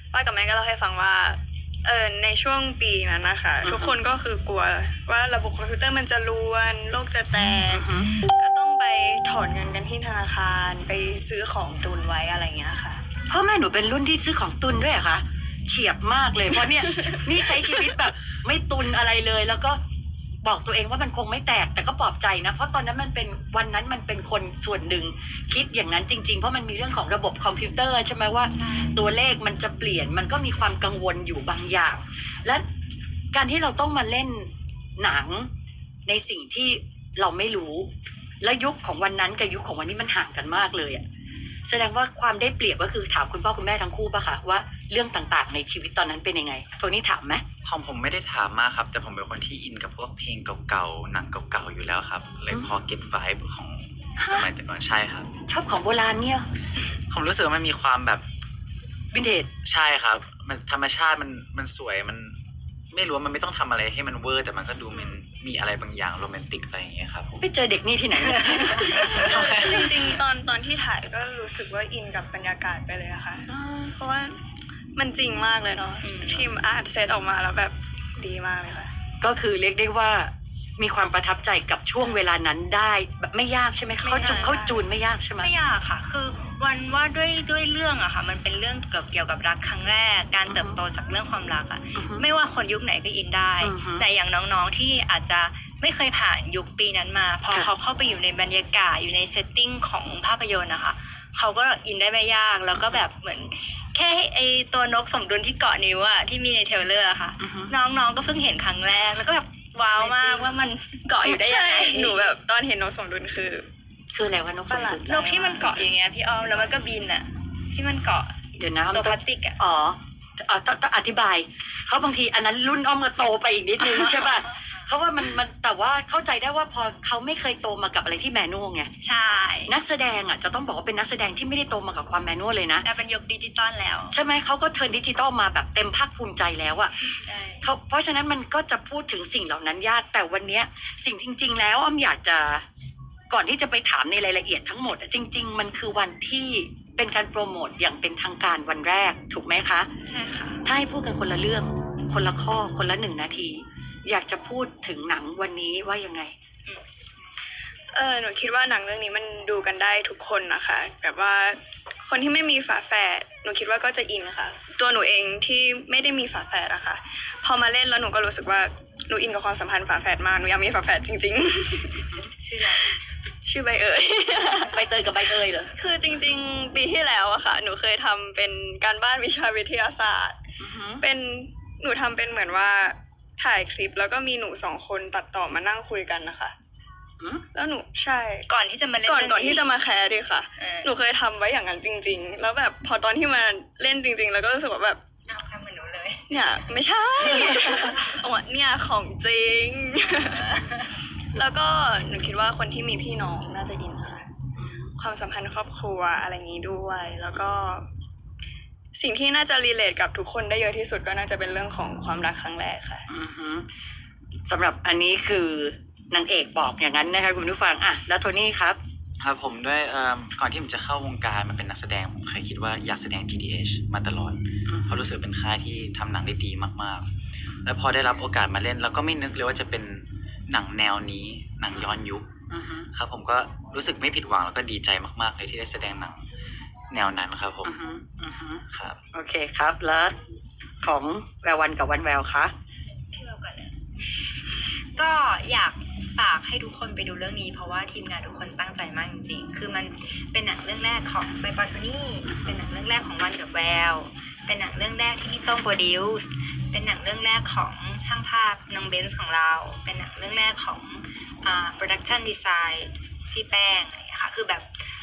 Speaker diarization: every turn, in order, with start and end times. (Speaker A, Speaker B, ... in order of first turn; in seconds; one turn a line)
Speaker A: 0.1-13.0
Speaker B: 3.6-3.9
Speaker B: 7.7-8.1
Speaker B: 13.3-19.8
Speaker A: 16.9-17.2
Speaker B: 20.4-32.6
Speaker C: 28.5-28.9
Speaker B: 33.3-35.5
Speaker B: 36.0-37.9
Speaker B: 38.4-41.0
Speaker B: 41.7-47.4
Speaker D: 47.6-55.3
Speaker B: 54.2-54.5
Speaker B: 55.5-56.5
Speaker D: 57.1-58.2
Speaker B: 59.1-59.5
Speaker D: 59.6-62.4
Speaker D: 62.9-67.4
Speaker B: 67.4-69.9
Speaker A: 69.0-74.4
Speaker B: 73.5-73.9
Speaker A: 74.9-78.9
Speaker C: 76.0-76.5
Speaker B: 79.2-85.5
Speaker A: 84.0-84.8
Speaker C: 84.0-84.6
Speaker C: 85.4-112.2
Speaker B: 90.5-90.8
Speaker B: 91.9-92.2
Speaker B: 93.6-94.0
Speaker B: 107.4-107.7
Speaker A: 110.0-110.5
Speaker A: 111.2-113.7
Speaker B: 114.1-115.5
Speaker A: 114.7-115.8
Speaker C: 115.1-119.6
Speaker B: 118.6-128.9
Speaker C: 123.9-124.4
Speaker C: 129.0-129.7
Speaker B: 129.7-132.8
Speaker C: 132.8-134.2
Speaker B: 134.1-136.9
Speaker C: 137.2-137.6
Speaker B: 137.6-142.6
Speaker B: 143.3-149.9
Speaker C: 150.1-150.6
Speaker B: 150.6-156.3
Speaker A: 157.9-172.1
Speaker A: 173.5-174.8
Speaker B: 174.6-175.7
Speaker A: 175.8-180.4
Speaker B: 180.6-181.0
Speaker A: 181.0-186.5
Speaker B: 187.2-187.4
Speaker A: 187.5-188.5
Speaker C: 188.5-189.7
Speaker A: 189.0-195.0
Speaker C: 190.6-190.9
Speaker E: 195.2-196.5
Speaker A: 196.3-200.6
Speaker B: 197.6-197.9
Speaker A: 201.3-204.3
Speaker B: 204.6-204.9
Speaker A: 205.0-207.9
Speaker A: 208.9-213.0
Speaker B: 213.1-213.7
Speaker B: 214.5-218.8
Speaker D: 219.2-227.1
Speaker B: 224.7-225.0
Speaker D: 227.6-232.3
Speaker B: 232.5-232.9
Speaker D: 232.9-236.3
Speaker D: 236.9-237.8
Speaker B: 237.6-240.1
Speaker D: 238.7-239.0
Speaker B: 240.8-242.5
Speaker C: 243.1-243.7
Speaker E: 244.9-264.7